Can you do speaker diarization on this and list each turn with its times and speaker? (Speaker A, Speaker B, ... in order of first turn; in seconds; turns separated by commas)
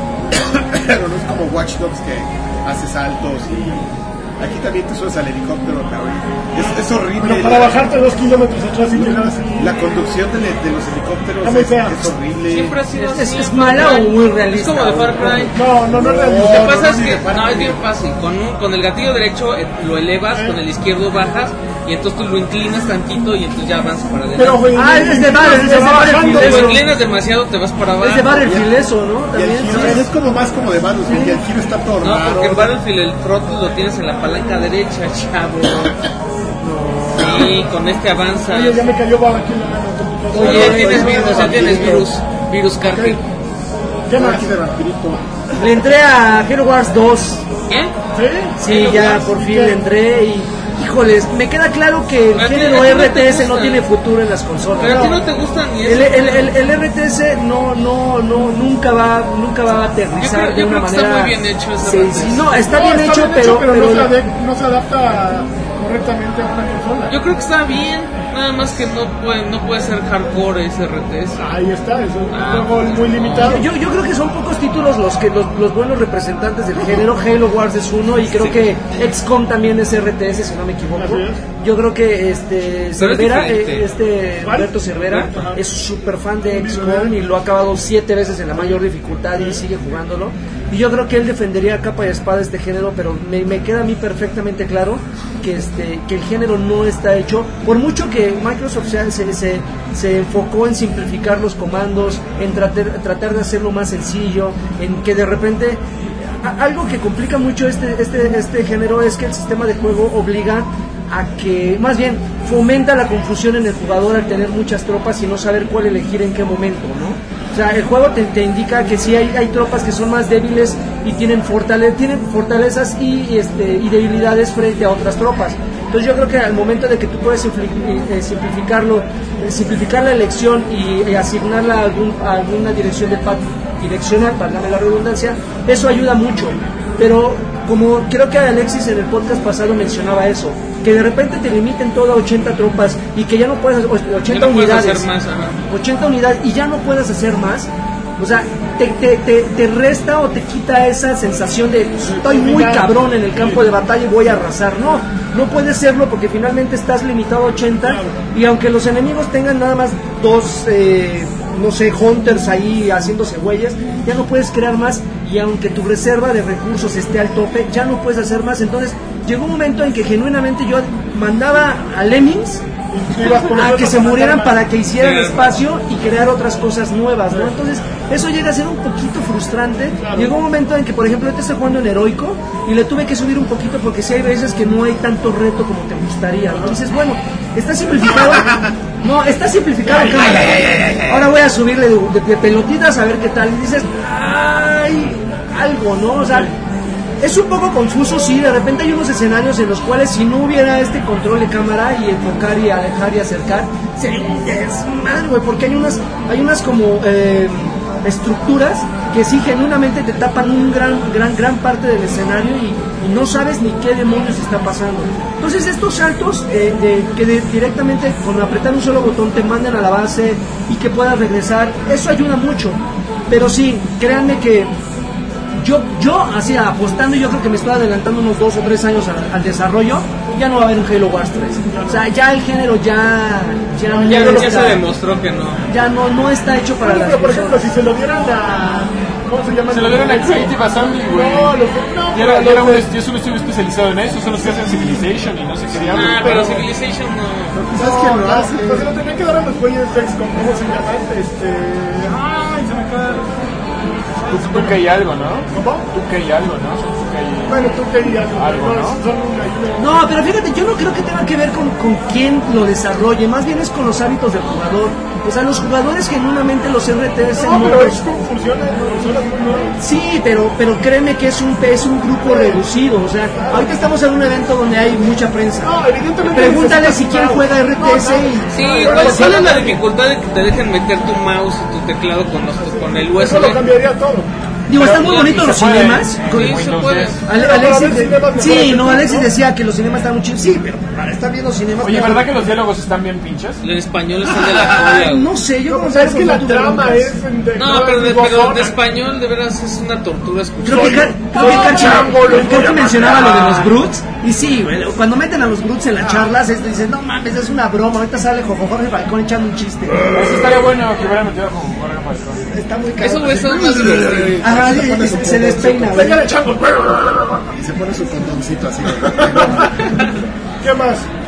Speaker A: 0.3-3.8, Speaker A: 4.4-7.9, Speaker B: 7.2-9.7, Speaker A: 8.9-12.8, Speaker B: 11.4-12.1, Speaker C: 12.5-15.6, Speaker D: 13.0-15.5, Speaker B: 15.5-16.8, Speaker A: 15.9-17.8, Speaker C: 16.4-24.7, Speaker B: 20.3-20.6, Speaker B: 24.3-26.8, Speaker D: 24.7-26.8, Speaker C: 26.2-28.5, Speaker D: 28.0-30.1, Speaker A: 28.4-28.8, Speaker A: 29.3-32.8, Speaker B: 29.7-30.0, Speaker D: 31.1-31.4, Speaker C: 32.0-36.0, Speaker C: 37.1-38.8, Speaker B: 38.5-41.6, Speaker D: 40.3-42.1, Speaker C: 40.3-43.2, Speaker A: 40.4-42.1, Speaker B: 42.9-43.2, Speaker B: 44.1-44.5, Speaker A: 44.1-45.2, Speaker D: 45.6-47.5, Speaker C: 47.7-47.9, Speaker B: 48.1-49.8, Speaker D: 48.6-55.2, Speaker C: 48.7-49.1, Speaker C: 52.3-53.9, Speaker C: 54.8-56.5, Speaker D: 55.8-64.2, Speaker C: 60.2-62.5, Speaker B: 62.6-67.1, Speaker C: 67.1-71.4, Speaker B: 71.4-73.7, Speaker C: 72.3-73.6, Speaker D: 73.4-145.1, Speaker B: 80.9-81.4, Speaker C: 83.0-83.8, Speaker B: 84.4-85.6, Speaker B: 86.5-87.2, Speaker B: 89.3-89.6, Speaker C: 144.3-145.6, Speaker D: 145.7-172.6, Speaker B: 152.0-153.6, Speaker B: 157.8-158.2, Speaker B: 172.9-174.6, Speaker D: 173.2-196.5, Speaker C: 175.0-175.6, Speaker B: 180.0-180.3, Speaker B: 190.2-190.7, Speaker B: 196.2-196.5, Speaker D: 197.2-224.7, Speaker D: 225.6-234.8, Speaker B: 231.7-232.0, Speaker B: 233.8-234.8, Speaker C: 234.1-235.6, Speaker D: 235.7-237.7, Speaker B: 236.8-242.9, Speaker E: 239.7-241.6, Speaker E: 242.1-246.5, Speaker B: 244.4-245.0, Speaker B: 245.7-246.7, Speaker C: 245.9-247.6, Speaker A: 247.6-248.9, Speaker B: 247.7-253.3, Speaker B: 254.1-254.8, Speaker E: 254.3-257.7, Speaker B: 255.5-255.9, Speaker B: 257.5-260.0, Speaker E: 258.3-259.0, Speaker D: 259.8-268.0, Speaker B: 267.3-269.8, Speaker D: 269.8-279.8, Speaker B: 272.2-272.6, Speaker B: 273.3-273.8, Speaker B: 275.6-279.8, Speaker C: 278.5-283.6, Speaker B: 282.6-284.3, Speaker D: 284.7-286.2, Speaker E: 284.7-287.2, Speaker C: 284.8-285.4, Speaker C: 286.2-287.2, Speaker B: 287.2-289.3, Speaker D: 287.3-292.3, Speaker E: 291.8-293.6, Speaker C: 293.6-295.3, Speaker D: 294.6-297.1, Speaker B: 295.7-298.8, Speaker C: 297.6-302.4, Speaker D: 300.6-310.4, Speaker B: 300.7-303.6, Speaker B: 306.0-306.3, Speaker E: 310.1-312.5, Speaker D: 312.5-316.3, Speaker C: 313.0-314.4, Speaker A: 313.2-316.2, Speaker B: 315.9-317.4, Speaker A: 317.5-319.8, Speaker B: 319.2-319.7, Speaker B: 320.6-321.1